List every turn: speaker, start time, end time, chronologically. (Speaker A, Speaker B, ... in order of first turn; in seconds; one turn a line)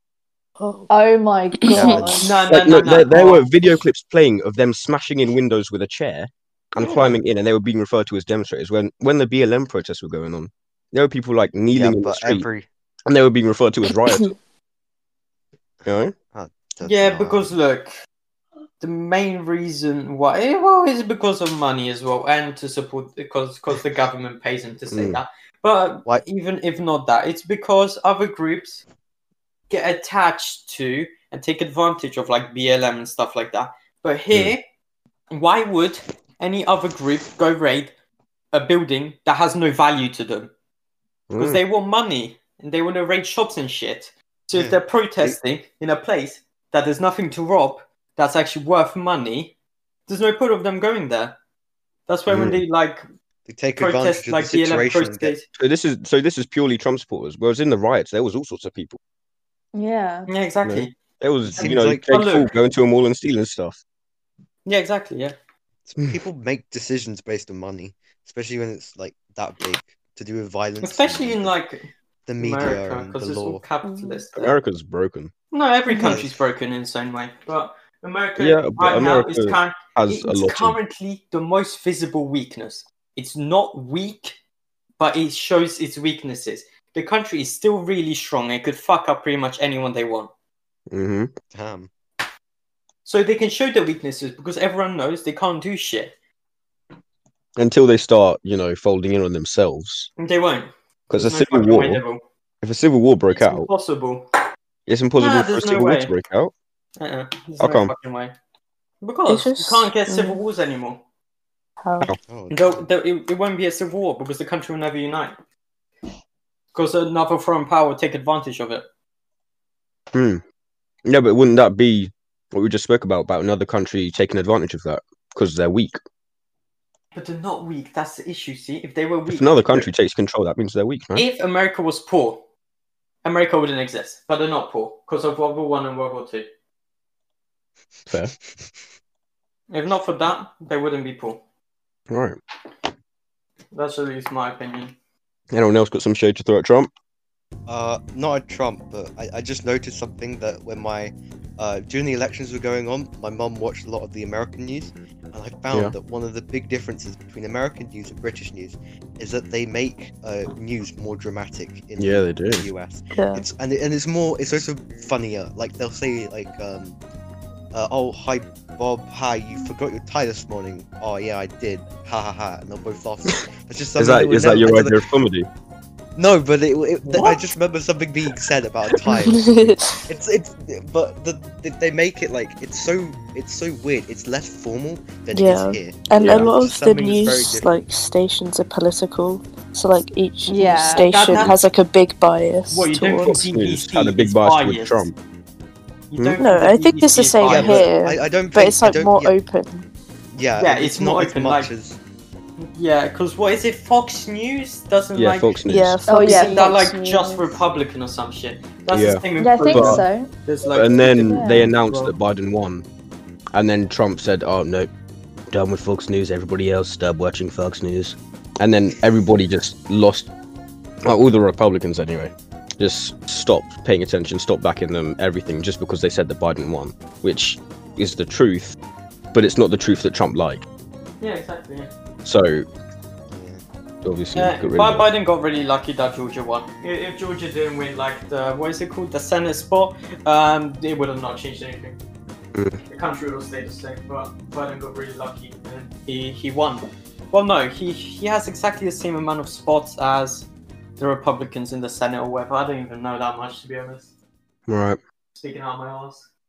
Speaker A: 0.6-0.9
Speaker B: 0.9-2.3
Speaker A: 1.5-2.1
Speaker C: 1.8-2.2
Speaker D: 1.8-12.5
Speaker E: 2.2-3.5
Speaker E: 6.8-7.1
Speaker C: 11.7-12.7
Speaker D: 13.1-14.3
Speaker A: 13.9-14.3
Speaker C: 15.8-17.5
Speaker D: 15.9-16.1
Speaker E: 16.8-17.9
Speaker E: 18.8-28.8
Speaker D: 24.9-25.2
Speaker E: 29.7-34.6
Speaker E: 35.3-37.9
Speaker E: 38.5-40.5
Speaker D: 41.3-41.6
Speaker E: 41.4-49.5
Speaker C: 44.5-45.4
Speaker E: 50.1-51.4
Speaker E: 52.1-53.0
Speaker D: 52.3-52.6
Speaker C: 53.5-55.4
Speaker E: 53.8-55.5
Speaker D: 55.5-59.0
Speaker B: 59.7-60.3
Speaker E: 60.3-61.0
Speaker D: 60.6-63.8
Speaker C: 61.5-62.1
Speaker E: 61.6-62.5
Speaker E: 64.7-65.3
Speaker C: 65.9-71.5
Speaker E: 70.8-74.5
Speaker C: 72.3-73.6
Speaker B: 73.9-74.2
Speaker D: 74.3-75.3
Speaker E: 75.5-84.3
Speaker C: 76.0-76.4
Speaker D: 78.4-80.8
Speaker E: 85.0-90.3
Speaker D: 90.9-91.3
Speaker C: 91.5-91.9
Speaker E: 93.0-96.1
Speaker D: 97.6-100.1
Speaker E: 100.2-102.2
Speaker D: 101.1-102.0
Speaker D: 102.6-103.7
Speaker E: 103.3-104.3
Speaker D: 104.9-106.5
Speaker E: 105.2-106.1
Speaker E: 107.0-108.3
Speaker D: 107.6-107.9
Speaker E: 109.0-111.0
Speaker A: 109.3-110.4
Speaker A: 111.8-112.1
Speaker C: 112.3-112.9
Speaker E: 112.5-115.4
Speaker E: 116.7-118.9
Speaker D: 120.1-120.4
Speaker D: 121.0-126.0
Speaker E: 127.1-129.9
Speaker D: 129.3-131.2
Speaker E: 131.2-132.4
Speaker E: 133.2-136.5
Speaker D: 138.1-138.3
Speaker E: 139.7-141.4
Speaker D: 142.1-142.4
Speaker E: 143.7-144.9
Speaker D: 145.5-146.9
Speaker C: 147.7-167.0
Speaker D: 162.0-162.7
Speaker A: 163.1-163.4
Speaker C: 167.7-175.1
Speaker D: 174.0-175.5
Speaker C: 176.2-187.8
Speaker E: 177.1-177.4
Speaker A: 179.1-180.0
Speaker A: 185.3-193.4
Speaker D: 186.2-186.5
Speaker B: 190.5-191.3
Speaker E: 191.0-191.6
Speaker E: 192.7-195.1
Speaker D: 193.2-195.2
Speaker E: 196.1-197.9
Speaker A: 196.4-199.9
Speaker C: 197.5-199.3
Speaker C: 200.3-202.0
Speaker E: 200.6-201.7
Speaker E: 202.6-212.1
Speaker D: 205.2-206.1
Speaker A: 205.7-206.7
Speaker B: 206.1-207.6
Speaker D: 208.9-210.0
Speaker B: 209.4-210.3
Speaker D: 210.7-212.9
Speaker B: 211.3-211.7
Speaker D: 213.5-214.9
Speaker D: 215.5-220.3
Speaker D: 221.1-228.8
Speaker D: 229.3-230.7
Speaker E: 231.2-231.9
Speaker D: 232.2-232.7
Speaker C: 233.3-233.6
Speaker D: 234.0-235.1
Speaker E: 234.3-242.0
Speaker D: 242.5-242.8
Speaker E: 242.9-254.1
Speaker D: 254.7-255.0
Speaker E: 255.3-256.3